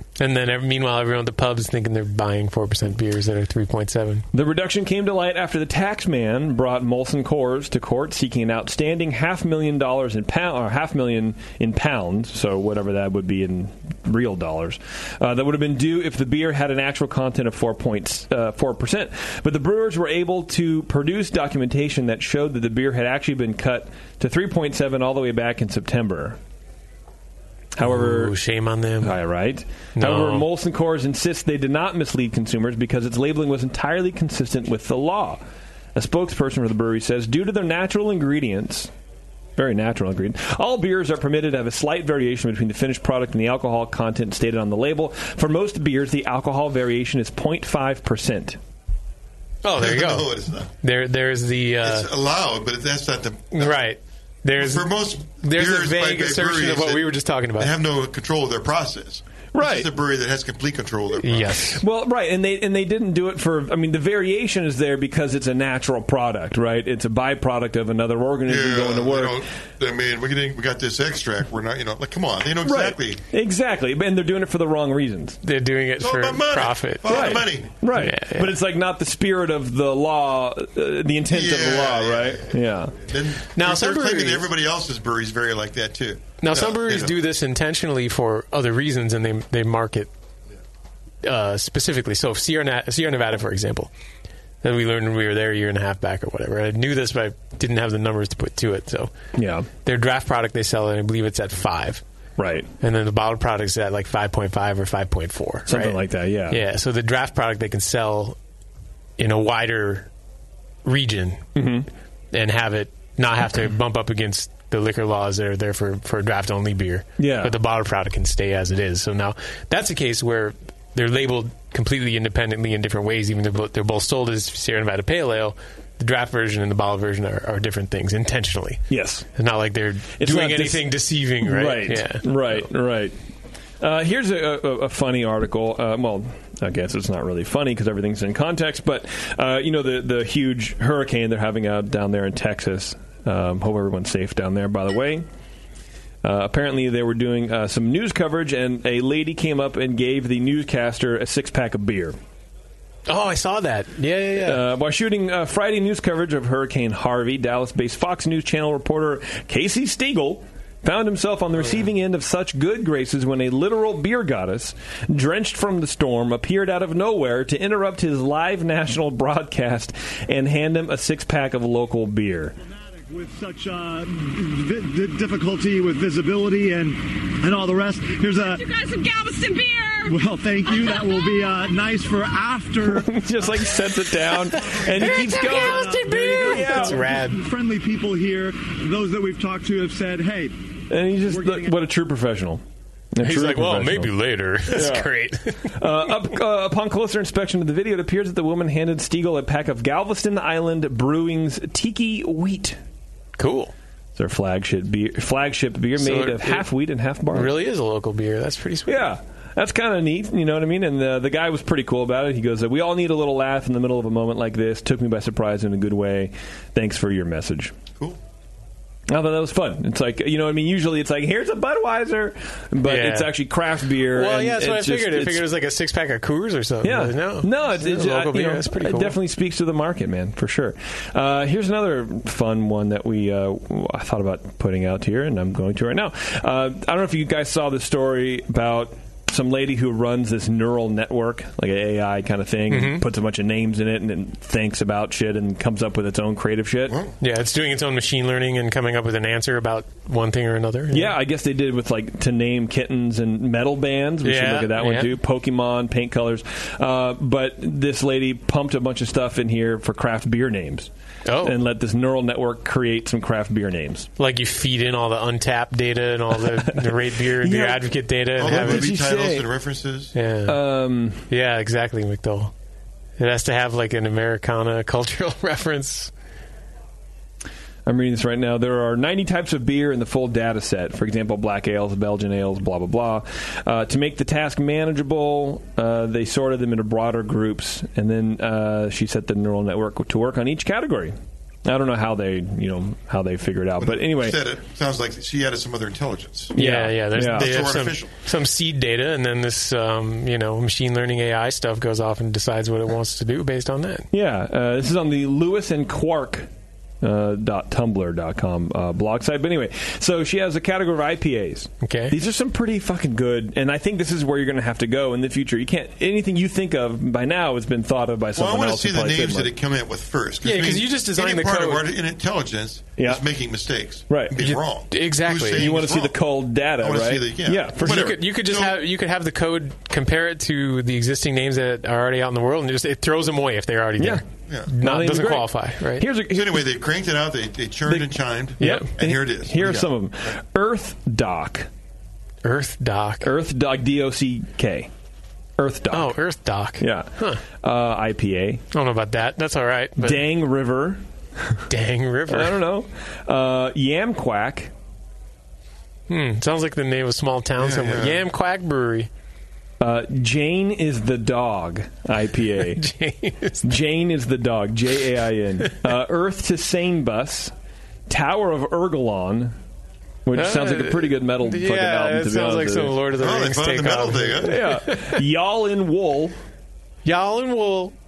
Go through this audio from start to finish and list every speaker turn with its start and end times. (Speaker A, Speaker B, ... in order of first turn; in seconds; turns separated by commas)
Speaker A: 0.2-4.2, Speaker B: 4.3-26.4, Speaker B: 27.8-28.4, Speaker A: 27.8-29.2, Speaker B: 29.0-35.4, Speaker A: 30.0-30.5, Speaker B: 36.0-38.9, Speaker B: 39.6-48.6, Speaker A: 49.6-50.3, Speaker C: 49.7-50.7, Speaker A: 50.8-52.1, Speaker C: 51.8-53.8, Speaker A: 53.5-57.7, Speaker C: 54.6-61.8, Speaker B: 59.5-59.9, Speaker A: 61.2-61.8, Speaker B: 61.8-69.4, Speaker C: 68.5-73.2, Speaker B: 72.6-75.4, Speaker A: 75.4-78.5, Speaker C: 76.0-77.7, Speaker B: 77.1-82.9, Speaker C: 81.3-87.1, Speaker A: 83.6-84.5, Speaker A: 86.4-90.1, Speaker A: 91.2-93.9, Speaker A: 94.6-99.1, Speaker B: 99.4-99.7, Speaker A: 99.8-102.0, Speaker B: 102.4-102.7, Speaker A: 102.8-106.0, Speaker B: 105.7-106.6, Speaker A: 106.5-108.4, Speaker A: 109.2-110.1, Speaker A: 110.8-111.4, Speaker B: 111.6-111.9, Speaker A: 112.3-128.8, Speaker B: 117.2-117.5, Speaker B: 128.9-129.3, Speaker A: 129.3-132.6, Speaker B: 130.2-130.9, Speaker B: 131.4-133.2, Speaker B: 133.8-145.3, Speaker B: 146.2-152.2, Speaker A: 153.1-154.6, Speaker B: 154.4-172.6, Speaker D: 172.6-178.6, Speaker E: 178.4-180.2, Speaker D: 180.1-191.8, Speaker E: 180.7-181.3, Speaker B: 182.8-187.0, Speaker A: 185.0-187.4, Speaker E: 185.1-186.7, Speaker B: 190.9-192.6, Speaker B: 193.2-194.1, Speaker A: 193.2-195.8, Speaker B: 194.7-195.1, Speaker B: 195.8-202.8, Speaker A: 203.4-203.7, Speaker B: 204.2-207.5, Speaker A: 206.0-206.7, Speaker A: 207.3-209.1, Speaker B: 208.9-217.7, Speaker B: 219.1-225.5, Speaker A: 222.8-223.4, Speaker A: 224.0-229.2, Speaker B: 226.8-247.0, Speaker A: 242.7-243.0, Speaker C: 246.9-247.2, Speaker A: 247.2-251.2, Speaker B: 250.9-260.9, Speaker A: 254.2-255.1, Speaker A: 261.3-261.6, Speaker B: 261.4-264.1, Speaker A: 264.2-268.9, Speaker B: 266.4-267.8, Speaker C: 268.4-270.1, Speaker B: 268.4-269.5, Speaker A: 270.1-270.6, Speaker B: 270.5-271.2, Speaker A: 271.3-272.5, Speaker A: 273.2-276.1, Speaker B: 277.9-291.1, Speaker B: 291.7-294.4, Speaker C: 293.8-296.6, Speaker B: 296.5-297.5, Speaker A: 296.6-304.1, Speaker C: 297.2-298.1, Speaker B: 304.1-306.5, Speaker B: 307.0-319.5, Speaker A: 311.8-312.1, Speaker C: 318.4-326.2, Speaker A: 320.4-321.9, Speaker B: 323.0-323.2, Speaker B: 324.1-324.6, Speaker A: 324.4-325.7, Speaker B: 325.6-328.2, Speaker C: 326.8-328.8, Speaker A: 327.8-336.1, Speaker B: 334.8-336.7, Speaker C: 336.3-339.9, Speaker B: 337.9-341.7, Speaker A: 338.6-338.9, Speaker A: 342.4-343.3, Speaker B: 343.2-344.9, Speaker B: 345.6-346.2, Speaker A: 345.9-347.4, Speaker B: 346.8-348.6, Speaker A: 348.7-350.2, Speaker B: 350.0-351.6, Speaker A: 351.7-352.6, Speaker B: 352.3-354.7, Speaker A: 356.1-359.1, Speaker C: 357.6-358.2, Speaker B: 359.8-362.8, Speaker A: 362.7-363.6, Speaker B: 363.6-367.5, Speaker B: 368.1-369.6, Speaker B: 370.3-373.0, Speaker A: 370.3-375.2, Speaker C: 373.2-374.6, Speaker B: 374.4-376.4, Speaker A: 377.1-377.9